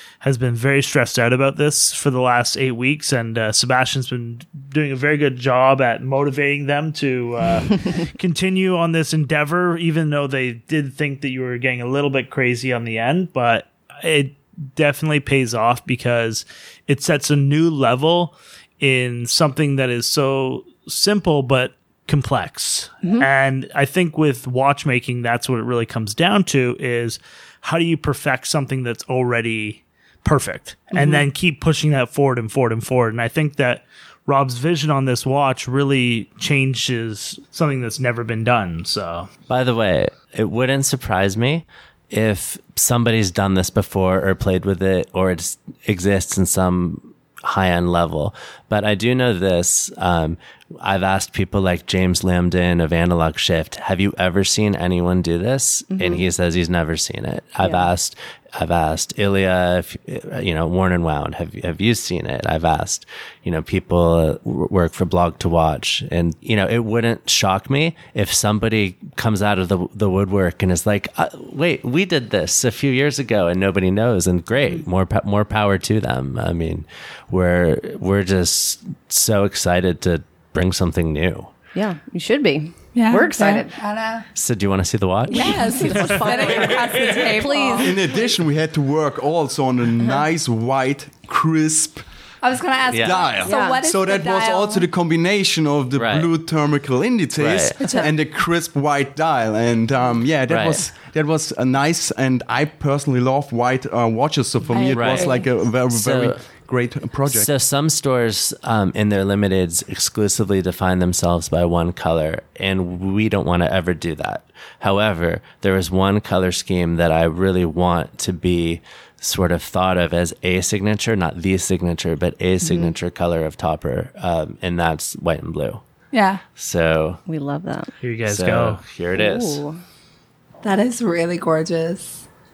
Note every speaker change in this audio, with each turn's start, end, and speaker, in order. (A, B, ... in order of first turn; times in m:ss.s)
0:00.2-0:39.3 A
0:23.0-0:23.3 B
0:30.9-0:31.2 B
0:39.5-1:21.6 C
0:55.9-0:56.2 B
0:57.6-0:57.9 B
1:21.8-1:23.8 B
1:22.9-1:24.2 D
1:24.4-1:26.1 C
1:25.3-1:28.1 B
1:25.3-1:28.0 D
1:27.8-1:32.0 E
1:32.4-1:34.9 D
1:32.9-1:33.5 C
1:33.0-1:47.5 E
1:33.5-1:33.8 B
1:36.0-1:36.3 C
1:37.4-1:37.8 C
1:40.5-1:40.8 C
1:44.6-1:45.5 B
1:44.9-1:46.4 C
1:47.3-2:05.8 C
2:02.6-2:02.9 B
2:06.1-2:06.4 D
2:06.6-2:07.2 C
2:07.3-2:07.9 B
2:08.0-2:08.8 A
2:08.2-2:09.6 C
2:09.1-2:09.8 B
2:10.6-2:12.2 D